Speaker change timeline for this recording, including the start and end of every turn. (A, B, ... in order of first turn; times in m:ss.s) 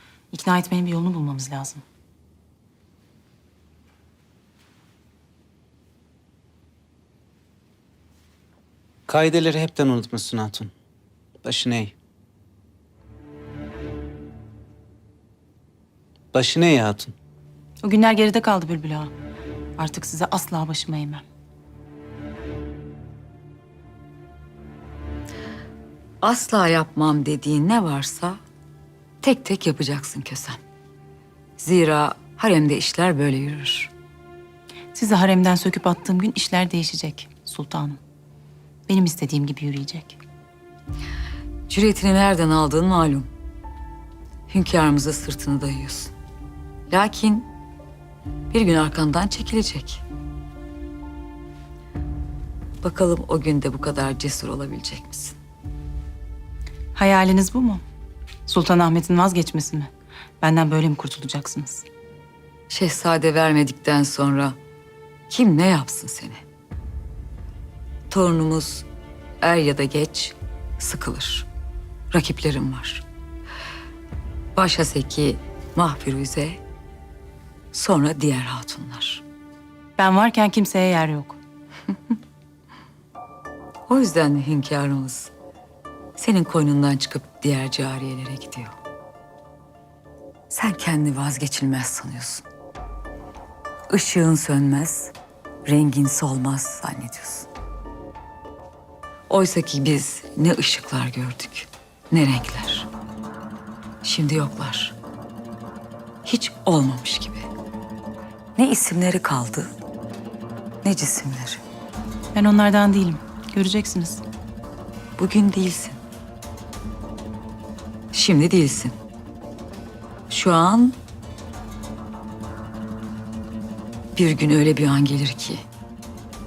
0:00.3-0:01.8 A
0:09.1-0:10.7 B
0:11.4-0:11.9 B
0:16.3-0:17.1 B
0:17.8-0:19.1 A
0:19.8-0:21.2 A
0:26.2-0:28.4 C
0:29.2-0:30.6 C
0:31.6-0:33.9 C
0:34.9-0:38.0 A
0:38.9-0:40.2 A
0:41.7-0:43.3 C
0:44.5-0:46.1 C
0:46.9-0:47.5 C
0:48.5-0:50.0 C
0:52.8-0:55.3 C
0:57.0-0:57.8 A
0:58.5-0:59.9 A
1:00.4-1:01.8 A
1:02.7-1:04.6 C
1:05.3-1:06.4 C
1:08.1-1:08.8 C
1:09.4-1:11.4 C
1:12.1-1:13.0 C
1:14.5-1:16.6 C
1:17.7-1:19.2 C
1:20.0-1:21.4 A
1:23.9-1:25.3 C
1:26.2-1:28.7 C
1:30.5-1:32.4 C
1:33.9-1:35.1 C
1:35.6-1:37.5 C
1:39.3-1:42.9 C
1:44.0-1:44.9 C
1:46.2-1:47.5 C
1:48.6-1:49.7 C
1:50.8-1:51.6 C
1:52.3-1:54.2 A
1:55.2-1:56.0 C
1:58.1-1:58.9 C
2:00.3-2:01.0 C
2:04.2-2:05.6 C